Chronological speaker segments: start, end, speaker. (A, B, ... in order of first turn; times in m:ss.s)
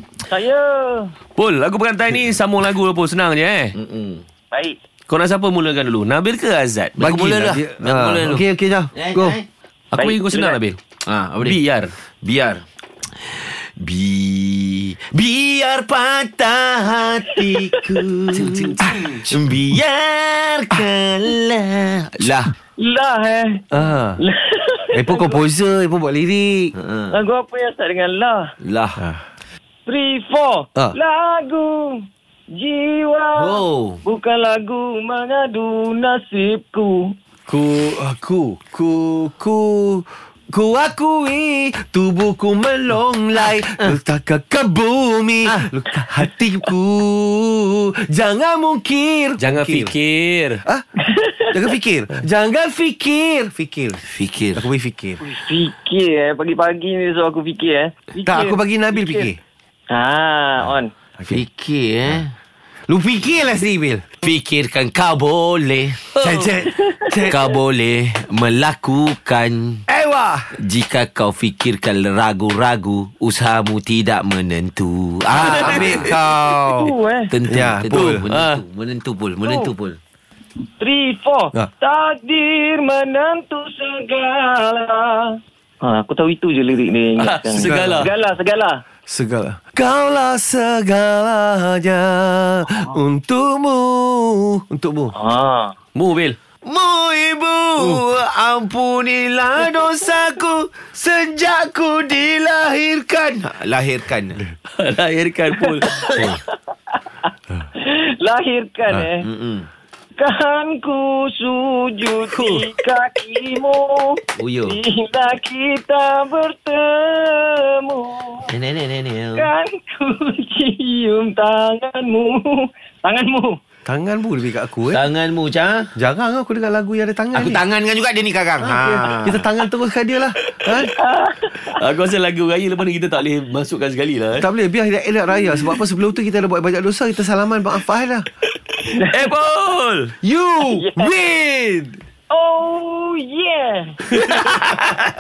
0:00.3-0:01.1 A
0:01.4-0:03.8 B
0:03.8-0:04.2 C
0:05.1-0:07.5 B
0:07.0-0:09.4 D
0:07.0-0:08.4 C
0:08.9-0:09.5 C
0:09.9-0:10.8 B
0:10.0-0:10.6 A
0:11.0-0:11.6 C
0:11.4-0:11.9 B
0:12.2-0:22.5 C
0:18.3-0:18.8 D
0:18.4-0:18.9 B
0:22.8-0:23.6 A
0:23.7-0:24.2 D
0:24.2-0:25.4 A
0:24.9-0:26.7 D
0:26.8-0:27.2 C
0:27.1-0:28.5 A
0:28.6-0:29.0 C
0:29.0-0:29.2 D
0:29.9-0:37.1 A
0:33.4-0:34.0 C
0:37.5-0:50.0 D
0:49.4-0:50.6 B
0:51.1-0:51.5 A
0:51.5-0:54.0 D
0:54.1-0:54.7 C
0:54.5-0:55.2 D
0:55.2-0:59.3 A
0:58.2-0:59.4 D
0:59.9-1:00.9 A
1:01.2-1:01.4 D
1:01.3-1:02.3 C
1:02.9-1:04.1 D
1:04.2-1:06.1 C
1:06.2-1:06.5 B
1:06.2-1:07.4 D
1:06.8-1:07.4 A
1:07.3-1:09.8 C
1:09.9-1:10.5 D
1:10.6-1:16.1 C
1:15.3-1:16.9 D
1:15.4-1:15.9 B
1:16.7-1:17.3 A
1:17.3-1:20.0 C
1:17.5-1:18.2 D
1:17.9-1:18.6 B
1:19.4-1:19.7 A
1:20.8-1:28.8 A
1:27.2-1:28.1 B
1:27.6-1:28.1 D
1:29.1-1:35.1 D
1:35.2-1:35.7 A
1:36.0-1:36.4 B
1:36.6-1:44.4 C
1:37.8-1:38.0 D
1:44.7-1:46.4 B
1:45.6-1:47.0 A
1:47.8-1:49.3 A
1:49.2-1:49.7 C
1:50.2-1:58.5 A
1:54.4-1:54.8 C
1:58.5-1:59.5 C
1:59.4-2:03.6 A
2:03.9-2:05.0 D
2:04.9-2:05.9 C
2:06.0-2:07.6 D
2:07.3-2:09.5 C
2:08.6-2:10.9 D
2:10.8-2:11.8 A
2:11.5-2:14.5 B
2:14.4-2:18.3 D
2:18.9-2:19.2 A
2:19.1-2:20.1 B
2:20.2-2:22.0 D
2:20.8-2:21.2 A
2:22.3-2:24.0 A
2:24.2-2:24.8 B